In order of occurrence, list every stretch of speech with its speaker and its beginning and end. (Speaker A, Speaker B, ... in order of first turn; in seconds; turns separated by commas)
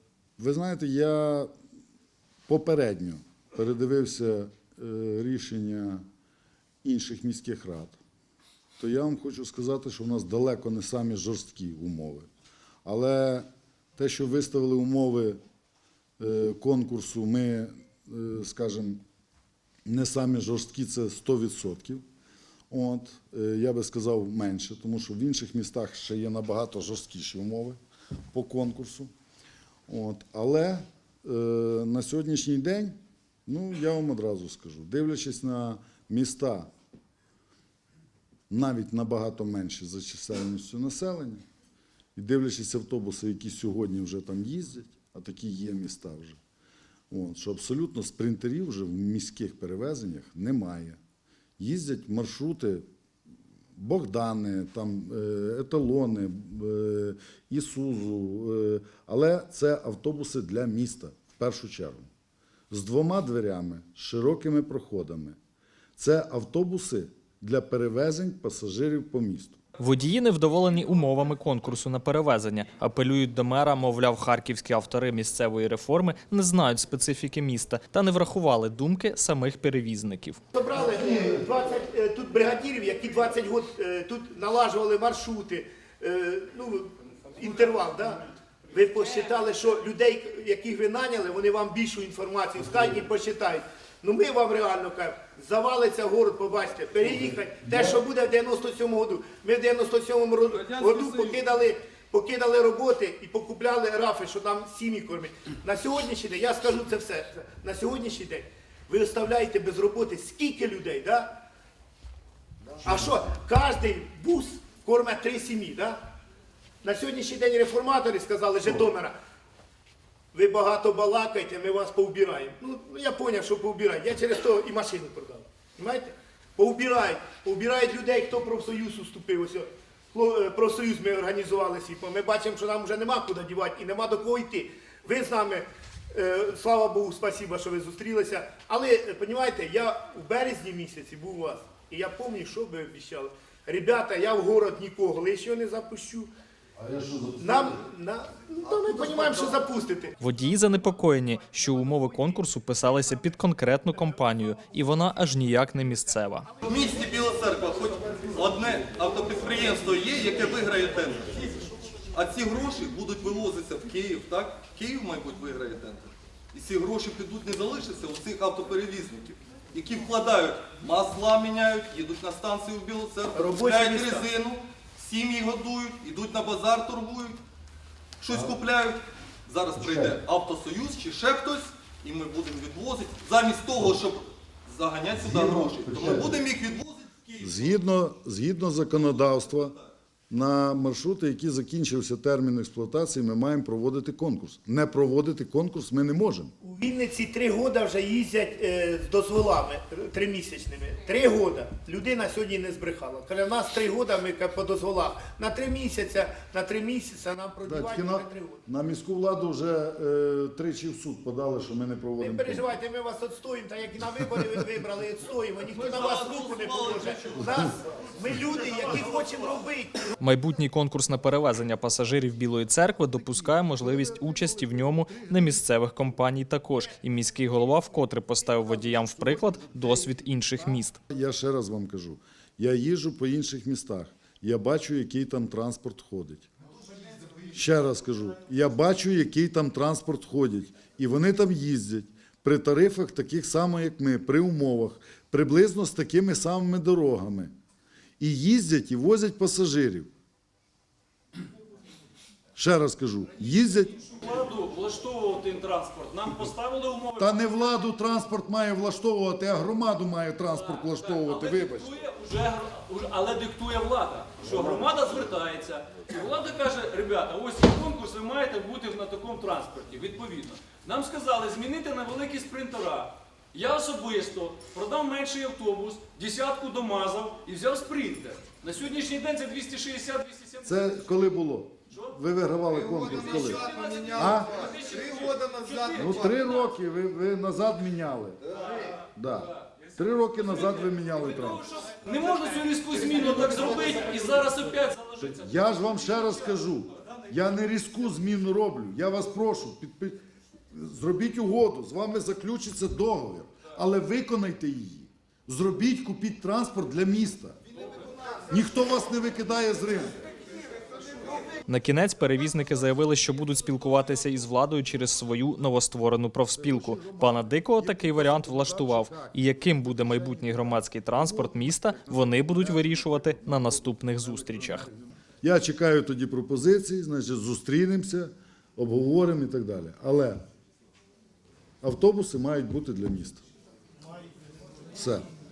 Speaker A: 0.4-1.5, Speaker A: 2.5-6.0, Speaker A: 6.8-8.0, Speaker A: 8.8-12.3, Speaker A: 12.8-15.4, Speaker A: 16.2-19.0, Speaker A: 19.9-22.1, Speaker A: 22.7-27.8, Speaker A: 28.3-29.1, Speaker A: 29.9-36.7, Speaker A: 38.5-41.4, Speaker A: 42.2-46.4, Speaker A: 47.1-51.0, Speaker A: 51.6-52.9, Speaker A: 53.8-62.1, Speaker A: 62.7-65.4, Speaker A: 66.0-69.6, Speaker B: 69.8-80.4, Speaker C: 80.5-111.3, Speaker D: 100.5-101.4, Speaker C: 112.8-116.0, Speaker C: 116.8-119.1, Speaker C: 120.3-146.3, Speaker A: 146.8-147.8, Speaker C: 147.4-150.2, Speaker B: 150.2-156.5, Speaker D: 156.6-177.4, Speaker C: 173.3-174.3, Speaker D: 178.2-187.7, Speaker A: 179.8-180.2, Speaker A: 185.2-186.4, Speaker A: 187.4-189.8, Speaker A: 190.3-196.5, Speaker C: 196.6-208.6, Speaker A: 207.7-212.7, Speaker C: 212.2-220.0, Speaker D: 215.7-217.7, Speaker B: 220.2-231.0, Speaker A: 223.1-225.6, Speaker A: 231.1-236.5, Speaker A: 237.5-247.5, Speaker A: 248.2-250.1, Speaker A: 252.6-253.9, Speaker E: 254.0-257.3, Speaker A: 257.2-262.0, Speaker E: 260.8-280.7, Speaker A: 280.6-284.7, Speaker D: 283.1-283.7, Speaker E: 283.2-286.6, Speaker D: 285.2-285.5, Speaker A: 285.9-288.4, Speaker A: 289.0-291.6, Speaker E: 291.2-296.4, Speaker A: 295.2-300.2, Speaker A: 300.7-307.6, Speaker A: 308.5-310.2, Speaker B: 311.7-324.9, Speaker A: 316.6-330.4, Speaker A: 331.8-333.4, Speaker A: 334.9-335.3